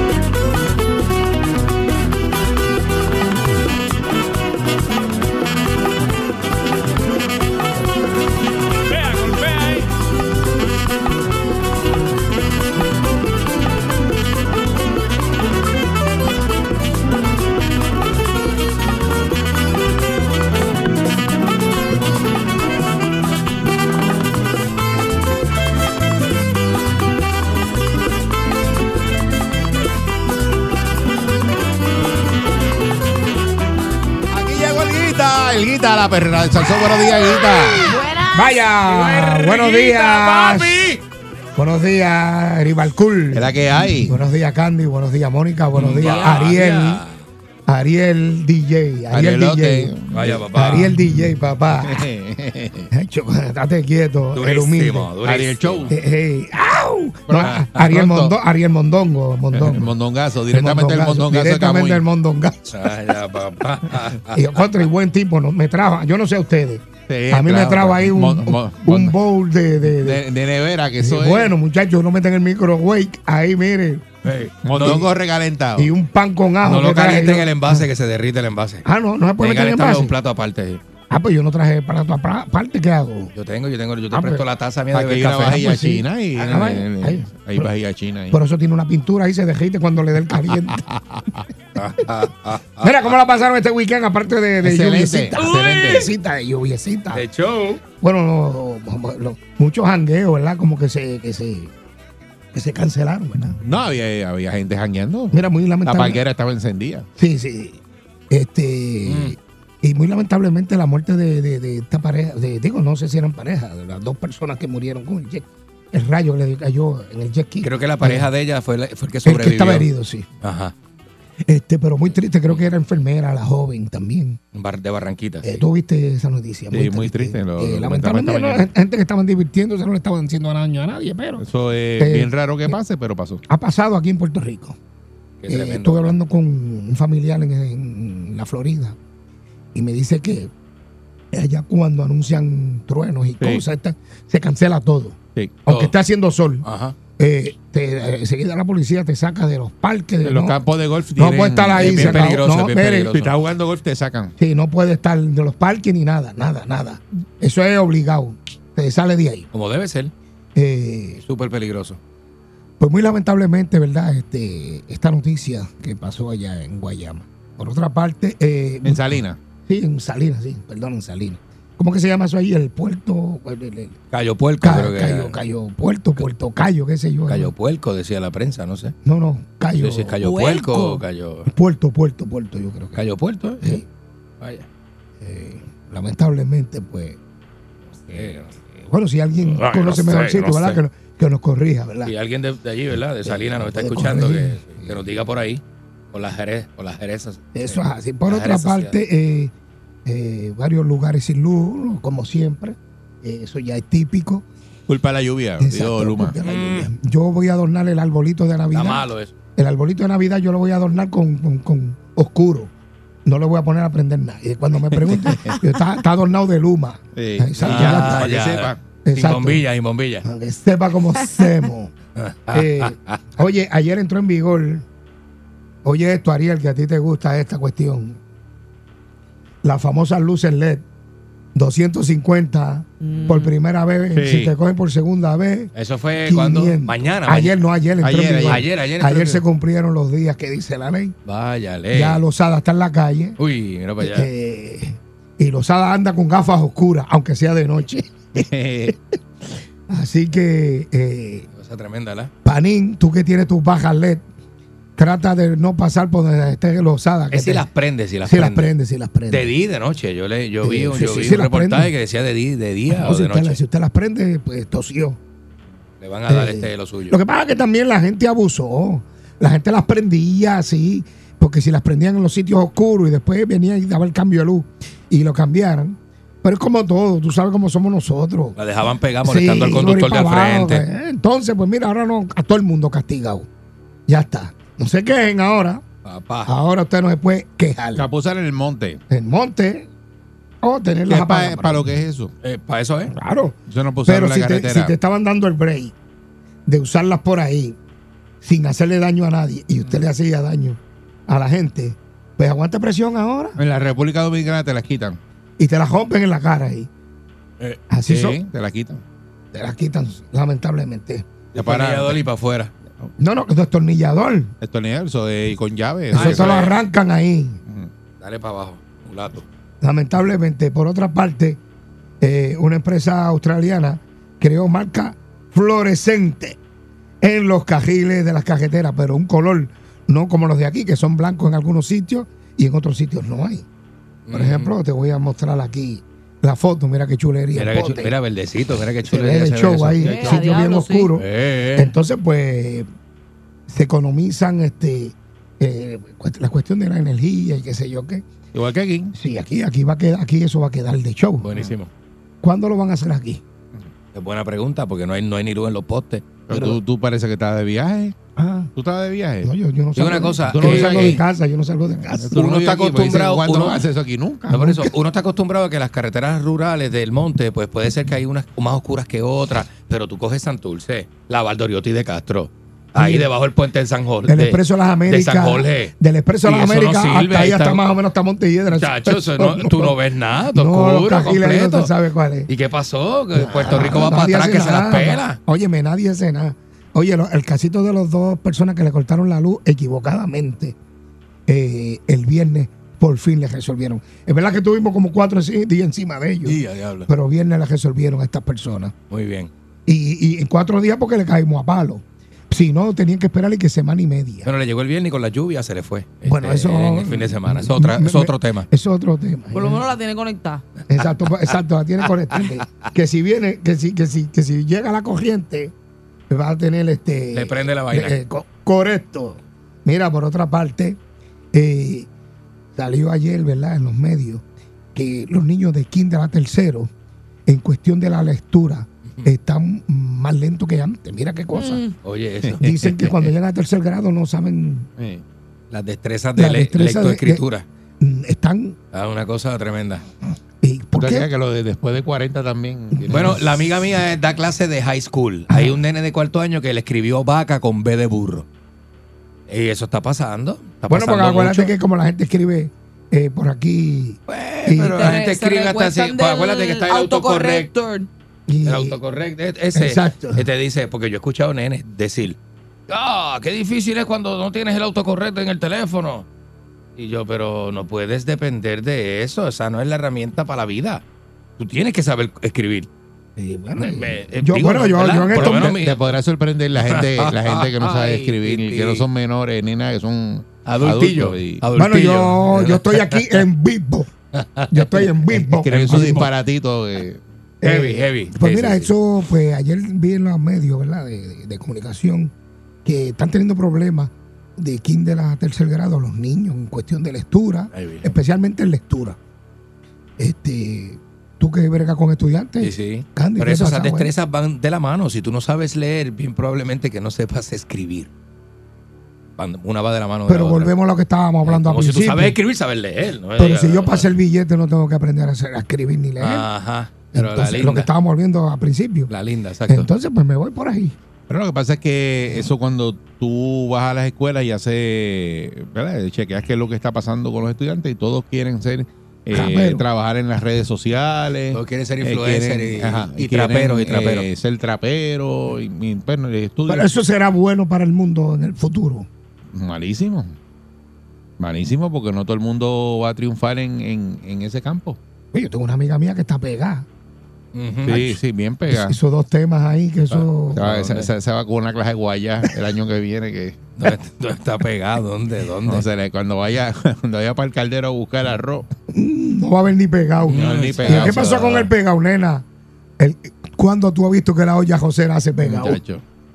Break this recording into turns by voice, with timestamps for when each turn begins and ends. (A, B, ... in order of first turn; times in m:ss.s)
0:34.3-0:38.1 A
0:37.8-0:38.6 B
0:38.3-0:40.9 C
0:41.6-0:43.5 C
0:43.3-0:44.2 A
0:44.0-0:47.0 C
0:45.8-0:47.2 D
0:45.8-0:46.3 A
0:47.7-0:49.9 C
0:49.1-0:50.5 A
0:50.1-0:50.9 D
0:50.5-0:52.0 C
0:51.8-0:52.9 A
0:52.9-0:55.1 C
0:54.3-0:55.9 D
0:55.2-0:55.9 A
0:55.9-0:59.9 C
0:57.3-0:58.3 A
0:57.4-0:57.7 D
0:59.5-1:02.0 A
1:00.5-1:02.7 C
1:02.7-1:04.8 D
1:04.3-1:10.2 C
1:07.1-1:09.2 A
1:09.9-1:11.5 A
1:11.0-1:14.0 C
1:14.2-1:15.0 D
1:14.6-1:15.9 A
1:14.8-1:15.1 C
1:15.8-1:17.8 C
1:16.6-1:18.8 D
1:18.8-1:20.1 C
1:19.4-1:20.8 D
1:21.1-1:23.3 C
1:23.3-1:25.7 D
1:24.1-1:24.4 C
1:24.9-1:28.4 A
1:25.5-1:27.7 C
1:28.3-1:30.8 C
1:30.7-1:31.2 A
1:31.8-1:33.1 D
1:32.8-1:37.2 C
1:34.6-1:36.1 A
1:37.1-1:37.8 D
1:38.0-1:41.7 C
1:42.5-1:43.6 C
1:43.6-1:47.0 A
1:45.3-1:46.2 C
1:47.2-1:47.8 C
1:48.3-1:58.3 C
1:49.1-1:49.4 D
1:57.6-1:59.9 D
1:59.2-2:00.3 C
2:00.4-2:00.7 D
2:01.5-2:04.4 C
2:04.5-2:05.6 D
2:05.4-2:11.4 C
2:06.7-2:08.7 A
2:11.4-2:13.4 A
2:12.0-2:12.8 C
2:13.5-2:14.8 C
2:15.4-2:16.2 D
2:15.5-2:19.0 C
2:19.7-2:20.5 C
2:21.3-2:26.6 C
2:25.7-2:25.9 D
2:26.6-2:27.0 D
2:27.2-2:30.6 C
2:30.2-2:32.3 A
2:31.2-2:33.1 C
2:31.8-2:33.3 D
2:33.1-2:34.3 A
2:34.4-2:39.5 C
2:39.5-2:40.1 D
2:40.5-2:41.2 C
2:41.2-2:42.0 D
2:42.8-2:54.0 C
2:48.8-2:49.4 A
2:54.1-2:55.4 D
2:54.6-2:57.5 C
2:57.3-2:58.9 D
2:59.0-3:00.2 C
2:59.8-3:01.5 D
3:00.2-3:01.0 B
3:01.5-3:03.0 C
3:02.9-3:03.8 D
3:04.4-3:04.7 D
3:05.2-3:07.2 C
3:07.9-3:08.6 D
3:08.1-3:12.1 C
3:09.4-3:10.8 D
3:12.0-3:19.0 D
3:13.2-3:15.0 C
3:17.5-3:19.5 C
3:20.0-3:24.4 C
3:24.9-3:26.3 A
3:25.6-3:32.7 C
3:26.4-3:26.9 D
3:28.7-3:29.3 D
3:33.2-3:38.3 C
3:35.1-3:35.5 A
3:37.2-3:38.8 A
3:37.6-3:40.2 D
3:39.0-3:39.7 C
3:40.2-3:41.9 C
3:42.2-3:43.2 D
3:42.5-3:44.8 C
3:45.8-3:48.2 C
3:49.6-3:50.8 C
3:51.5-3:55.7 C
3:53.1-3:53.5 B
3:54.1-3:54.5 A
3:55.7-3:57.6 D
3:56.2-4:01.1 C
3:58.0-3:58.6 A
3:58.5-3:59.4 D
4:01.2-4:02.2 D
4:01.9-4:03.4 C
4:03.4-4:04.3 D
4:04.0-4:09.0 C
4:08.4-4:08.9 A
4:09.9-4:11.5 C
4:11.5-4:12.3 D
4:12.4-4:14.2 C
4:15.0-4:17.6 C
4:17.3-4:18.7 D
4:18.2-4:19.5 C
4:19.3-4:23.6 D
4:20.6-4:21.9 C
4:22.9-4:25.2 C
4:26.0-4:27.2 D
4:26.3-4:38.6 C
4:38.6-4:40.8 D
4:39.2-4:43.5 C
4:44.1-4:45.8 C
4:46.0-4:46.5 D
4:46.4-4:48.0 C
4:48.0-4:49.0 A
4:49.1-4:49.9 C
4:50.6-4:51.9 C
4:51.1-4:52.3 A
4:52.4-4:53.1 D
4:53.1-4:55.9 C
4:53.7-4:54.9 A
4:56.6-4:57.8 C
4:58.4-5:03.6 C
5:03.6-5:05.2 A
5:05.6-5:06.9 C
5:07.9-5:08.4 C
5:08.1-5:09.0 A
5:09.5-5:11.2 C
5:11.5-5:12.7 D
5:11.6-5:12.2 A
5:13.2-5:14.5 C
5:14.6-5:16.7 A
5:16.1-5:17.6 C
5:16.1-5:16.8 D
5:18.2-5:19.4 D
5:19.8-5:21.6 C
5:22.2-5:26.6 C
5:27.2-5:33.6 C
5:34.3-5:34.7 D
5:34.3-5:38.1 C
5:37.5-5:40.5 D
5:39.0-5:42.9 C
5:40.0-5:41.1 B
5:41.1-5:41.9 D
5:43.7-5:48.2 C
5:48.5-5:49.1 D
5:49.1-5:51.5 C
5:51.4-5:51.9 D
5:52.4-5:53.4 C
5:54.1-5:56.2 D
5:56.5-5:58.2 A
5:56.5-5:56.8 C
5:58.4-5:58.7 C
5:58.8-5:59.5 A
5:59.4-6:02.3 C
6:00.0-6:01.2 D
6:00.5-6:01.2 A
6:02.2-6:04.4 A
6:02.3-6:03.8 D
6:04.4-6:04.9 C
6:04.5-6:17.9 D
6:12.9-6:13.3 C
6:14.2-6:20.0 C
6:18.7-6:21.9 D
6:20.5-6:22.5 C
6:22.4-6:25.4 D
6:23.4-6:30.8 C
6:31.5-6:38.9 C
6:36.4-6:37.1 D
6:39.1-6:39.5 D
6:39.9-6:44.5 C
6:44.4-6:48.6 D
6:46.2-6:49.9 C
6:49.5-6:50.6 B
6:50.9-6:55.7 C
6:51.0-6:51.3 D
6:56.3-7:01.0 C
6:57.3-6:58.2 D
7:01.5-7:02.1 C
7:02.8-7:04.4 C
7:04.9-7:06.9 C
7:07.5-7:11.9 C
7:12.0-7:12.6 D
7:12.6-7:14.9 C
7:15.0-7:15.2 A
7:15.7-7:17.6 D
7:16.4-7:17.4 C
7:18.0-7:18.8 C
7:18.9-7:20.0 D
7:20.6-7:21.3 C
7:21.0-7:23.4 A
7:22.9-7:23.4 C
7:23.1-7:28.4 D
7:25.5-7:25.8 C
7:29.5-7:31.7 D
7:30.9-7:35.1 C
7:34.3-7:37.7 D
7:34.8-7:38.1 B
7:38.5-7:39.0 C
7:38.6-7:42.4 D
7:39.7-7:40.4 C
7:42.9-7:46.3 D
7:47.0-7:51.0 D
7:51.6-7:52.9 D
7:53.4-7:55.8 C
7:53.8-7:56.0 D
7:55.3-8:01.6 A
7:56.8-7:59.0 D
8:00.6-8:03.3 D
8:01.7-8:04.1 C
8:04.4-8:06.3 D
8:04.7-8:06.2 C
8:05.6-8:07.2 A
8:07.6-8:12.3 C
8:07.6-8:08.9 D
8:12.8-8:19.2 C
8:17.7-8:18.1 D
8:20.2-8:24.1 C
8:22.6-8:28.1 D
8:29.4-8:30.7 D
8:30.3-8:32.4 C
8:31.4-8:34.1 D
8:33.4-8:36.5 C
8:36.2-8:37.9 D
8:37.1-8:39.1 C
8:39.1-8:39.9 D
8:39.7-8:40.9 C
8:41.3-8:57.0 A
8:49.3-8:49.8 C
8:51.5-8:54.3 D
8:56.7-8:59.1 C
8:59.5-9:00.4 A
9:01.4-9:05.0 A
9:05.3-9:06.8 C
9:07.5-9:08.2 D
9:07.8-9:09.0 A
9:08.7-9:10.6 C
9:10.1-9:13.6 A
9:10.6-9:11.1 D
9:13.8-9:15.8 D
9:15.6-9:18.7 A
9:18.9-9:22.4 C
9:20.3-9:21.4 A
9:20.3-9:21.7 D
9:23.0-9:25.8 C
9:25.4-9:26.0 A